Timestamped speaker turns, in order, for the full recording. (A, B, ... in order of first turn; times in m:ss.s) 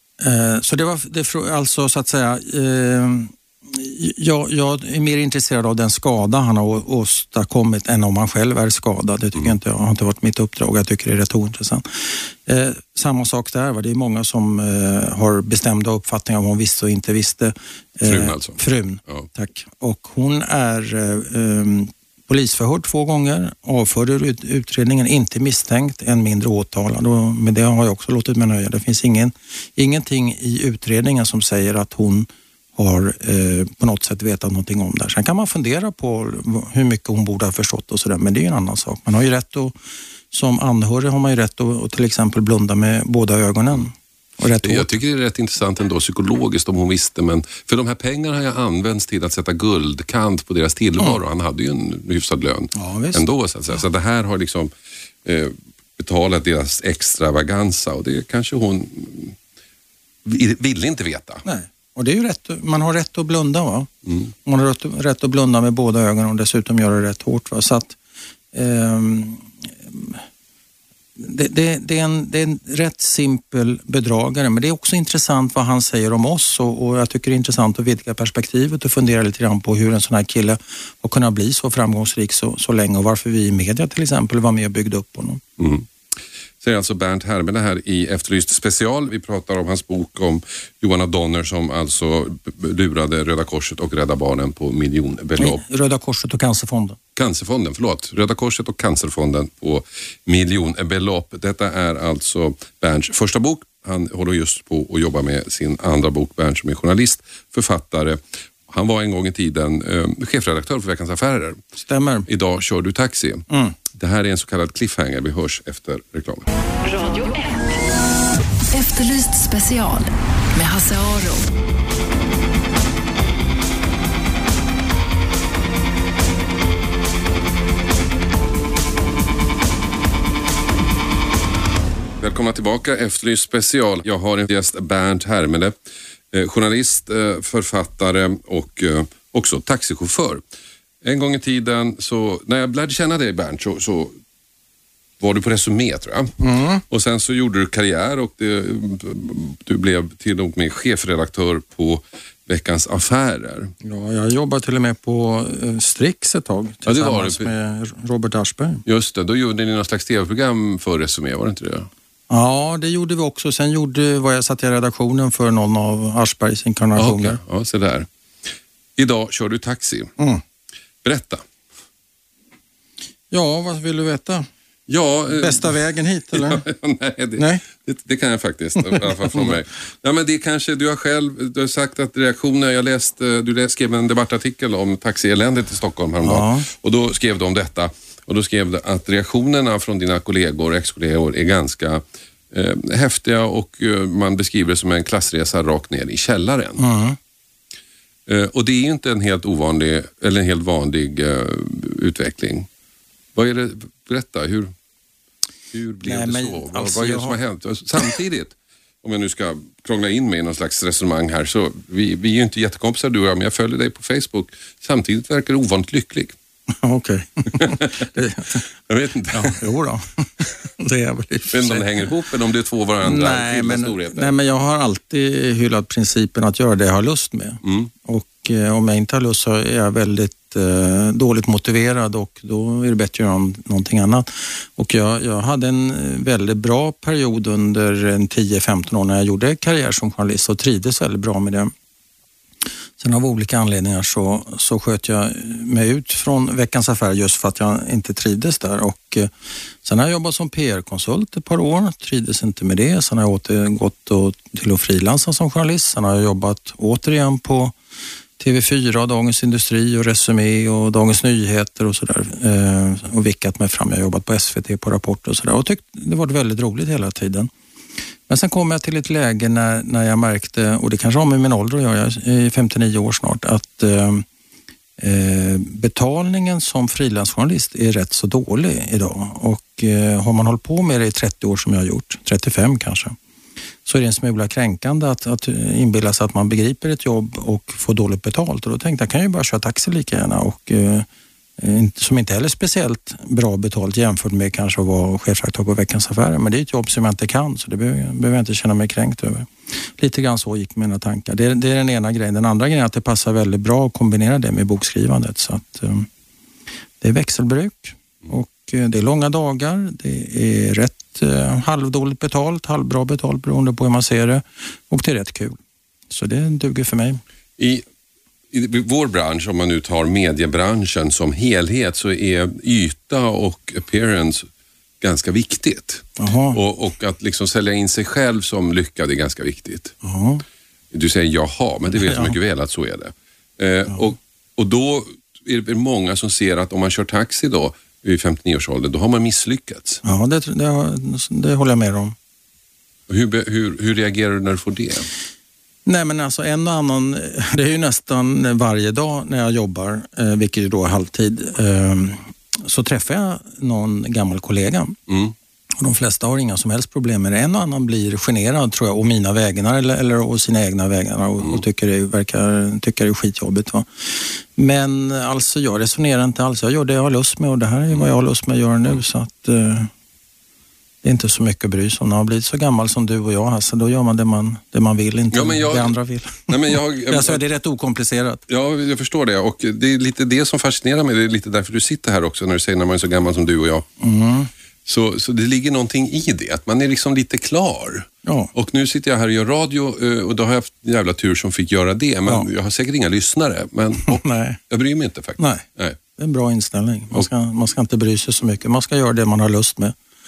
0:00.2-0:39.8 A
0:18.0-0:19.3 B
0:40.3-0:44.9 A
0:44.6-0:54.7 B
0:52.8-0:53.2 A
0:55.2-0:59.4 B
1:00.2-1:01.4 B
1:01.4-1:03.9 A
1:04.4-1:08.0 A
1:08.5-1:10.2 A
1:11.2-1:25.4 A
1:25.6-1:25.9 B
1:26.6-1:35.6 B
1:35.4-1:37.0 A
1:37.2-1:51.6 B
1:51.8-1:52.3 A
1:52.3-1:56.5 B
1:53.5-1:53.8 A
1:56.8-2:01.5 C
2:12.2-2:15.8 B
2:16.3-2:20.4 B
2:21.0-2:24.2 B
2:25.2-2:33.7 B
2:26.4-2:26.8 A
2:33.8-2:38.8 A
2:36.9-2:37.5 B
2:38.9-2:41.9 B
2:42.3-2:47.4 A
2:47.0-2:48.1 B
2:49.0-2:50.1 B
2:51.0-2:51.4 B
2:53.3-2:54.5 A
2:54.9-2:55.7 B
2:55.3-2:56.6 A
2:56.3-3:16.8 B
2:57.4-2:57.6 A
2:58.8-2:59.5 A
3:06.2-3:06.7 A
3:16.8-3:17.2 A
3:18.3-3:22.7 B
3:23.4-3:24.7 B
3:25.7-3:36.4 B
3:26.0-3:27.4 A
3:36.8-3:38.6 A
3:37.6-3:37.9 B
3:38.9-3:39.6 B
3:39.3-3:42.0 A
3:41.5-3:44.3 B
3:43.0-4:01.7 A
3:47.6-3:47.9 B
4:03.0-4:09.3 A
4:09.8-4:17.8 A
4:18.4-4:27.5 A
4:28.3-4:34.3 A
4:35.0-4:43.2 A
4:43.8-4:51.1 A
4:51.6-5:06.1 A
5:07.0-5:15.6 A
5:16.1-5:17.2 A
5:17.6-5:17.8 B
5:18.5-5:24.5 B
5:25.0-5:30.0 B
5:26.2-5:26.6 A
5:30.0-5:30.4 A
5:30.9-5:40.0 B
5:32.0-5:32.3 A
5:40.0-5:42.2 A
5:43.1-5:45.1 B
5:45.9-5:55.0 A
5:55.1-5:55.3 B
5:55.8-6:09.9 A
6:11.0-6:18.4 A
6:15.3-6:17.4 B
6:18.5-6:23.9 B
6:24.0-6:24.5 A
6:24.9-6:36.0 B
6:28.2-6:28.5 A
6:34.1-6:34.6 A
6:35.4-6:35.6 A
6:36.2-6:40.0 A